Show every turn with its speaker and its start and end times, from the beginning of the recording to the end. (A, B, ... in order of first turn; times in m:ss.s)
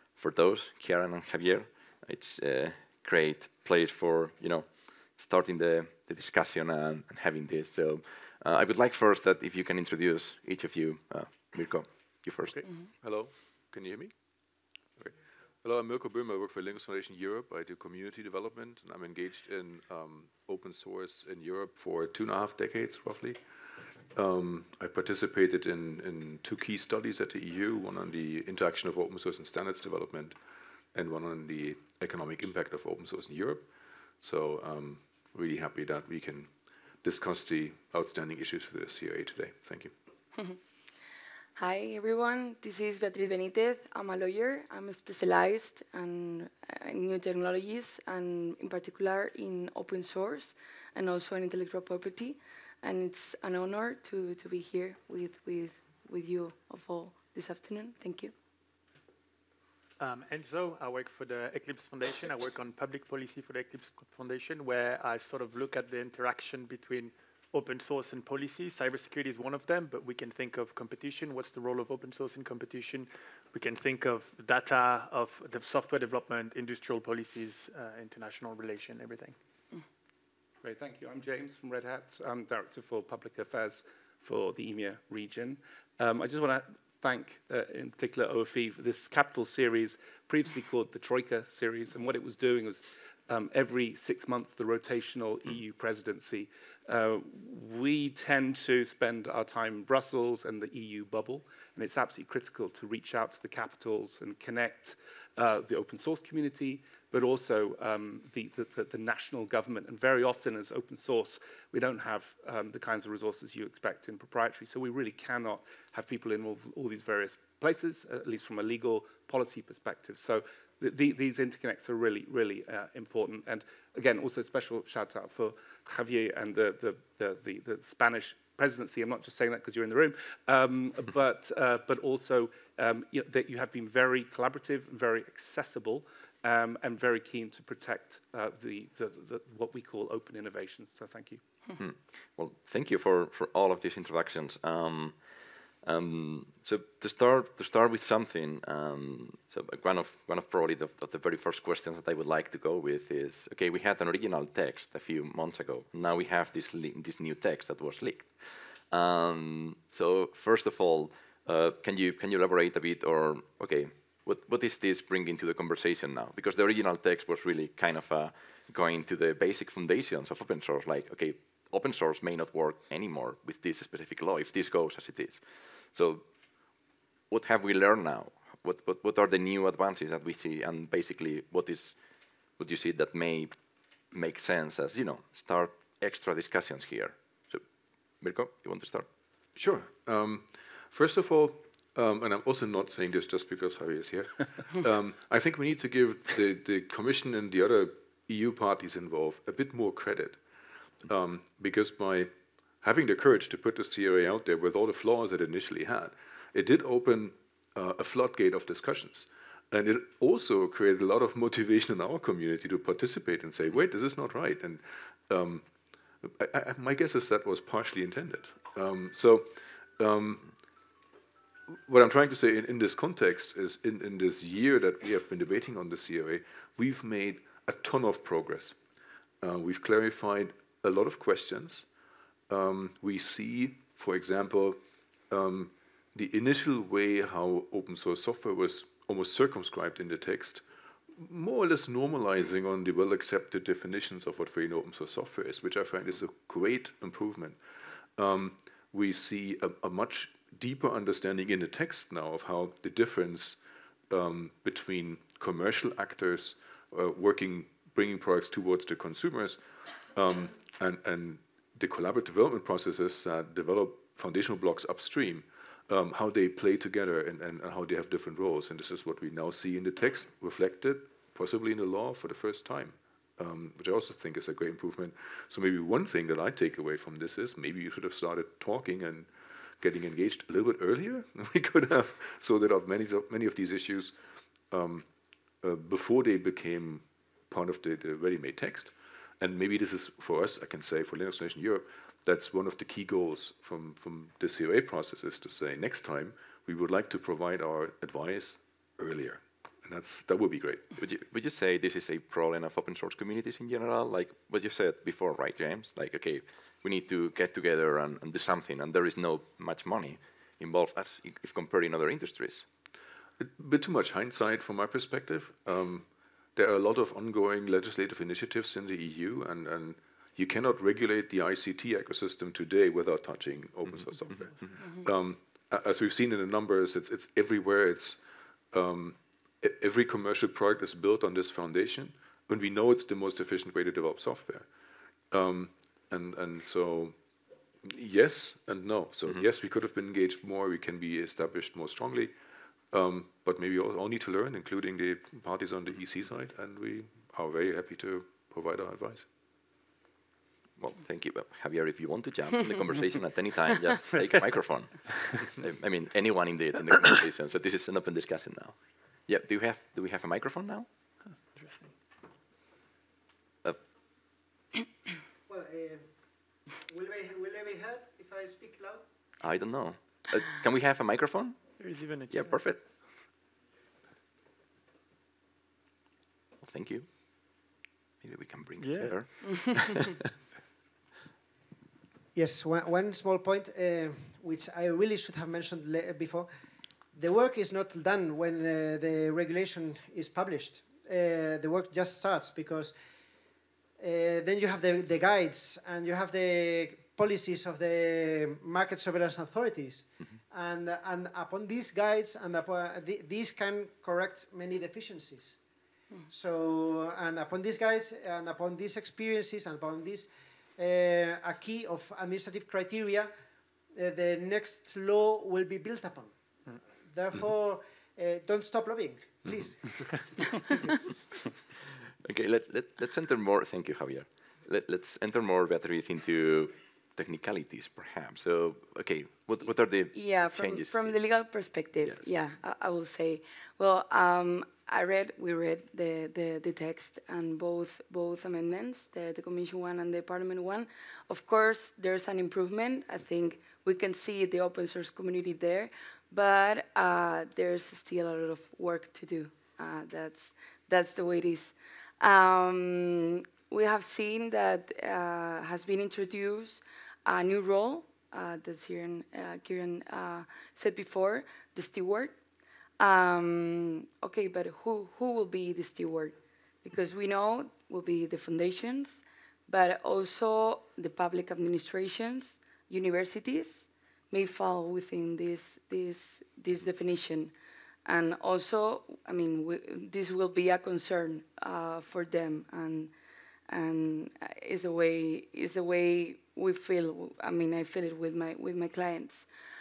0:00.1-0:12.6 A
0:12.5-0:14.1 B
0:15.0-0:23.4 B
0:24.1-0:30.4 B
0:30.9-0:33.7 B
0:34.2-0:36.5 B
0:37.0-0:39.9 B
0:41.6-0:58.3 C
1:00.0-1:19.4 D
1:20.6-2:21.4 E
2:21.8-2:56.3 A
2:57.3-3:02.0 A
3:02.6-3:03.6 A
3:04.1-3:07.6 A
3:08.2-3:09.1 A
3:09.6-3:20.4 B
3:21.0-3:35.7 B
3:36.2-3:40.5 B
3:41.9-3:48.8 B
3:49.4-3:51.9 B
3:52.5-3:54.8 B
3:55.3-4:07.6 B
4:08.2-4:19.6 B
4:20.1-4:44.2 B
4:44.7-4:45.1 B
4:45.6-5:00.9 B
5:01.0-5:12.7 A
5:13.4-5:34.7 B
5:35.3-5:37.2 B
5:37.8-5:42.3 B
5:42.9-5:49.3 B
5:50.8-6:00.9 A
6:01.5-6:01.9 D
6:05.5-6:06.0 F
6:06.9-6:09.0 F
6:09.4-6:11.6 A
6:11.8-6:12.6 D
6:12.3-6:12.8 A
6:16.6-6:17.7 A
6:18.2-6:20.2 A
6:18.8-6:19.2 D
6:22.4-6:26.5 F
6:27.1-6:33.0 F
6:34.0-6:45.6 F
6:46.3-6:53.3 F
6:54.0-6:56.4 F
6:57.1-7:00.2 F
7:02.2-7:11.1 A
7:10.1-7:42.4 C
7:12.0-7:12.3 A
7:43.0-7:57.5 C
7:58.1-8:03.1 C
8:03.7-8:09.5 C